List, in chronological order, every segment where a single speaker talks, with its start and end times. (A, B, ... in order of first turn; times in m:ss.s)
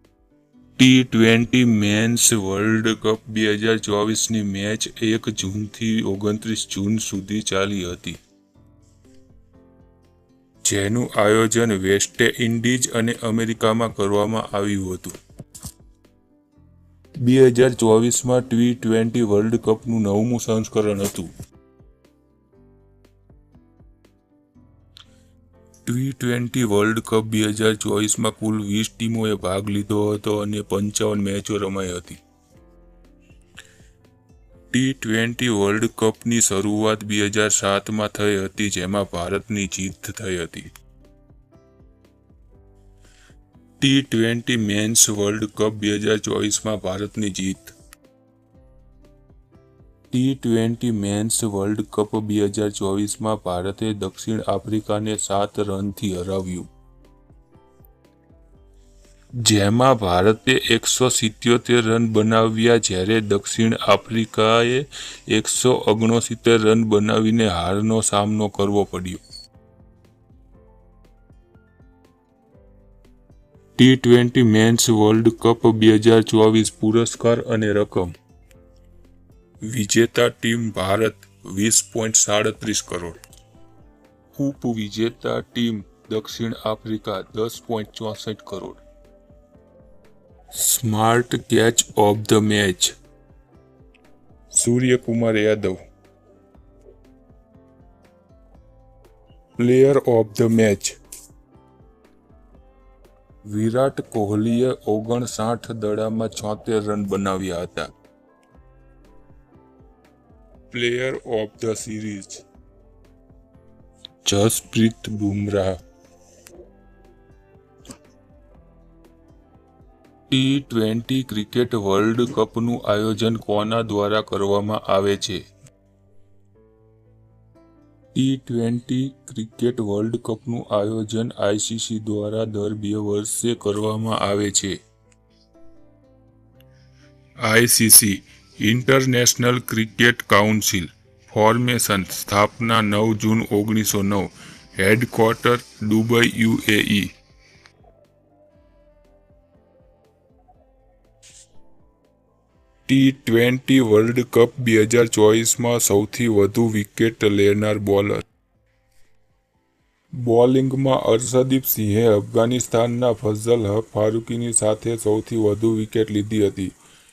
0:00.8-0:08.2 A
0:10.6-0:15.2 A
0:17.2-0:21.3 A
0:25.8-0:32.2 A
0:34.7-0:40.7 A
0:43.8-0:47.8 A
0:50.1-0:56.7 A
0:59.4-1:09.2 A
1:13.8-1:18.1 A
1:19.6-1:23.2 A
1:24.3-1:28.8 A
1:30.5-1:32.9 A
1:34.5-1:35.8 A
1:39.6-1:41.0 A
1:43.4-1:47.9 A
1:50.7-1:52.4 A
1:54.2-1:55.8 A
2:00.3-2:05.4 A
2:08.1-2:14.8 A
2:17.4-2:27.1 A
2:32.9-2:38.2 A
2:40.1-2:46.7 A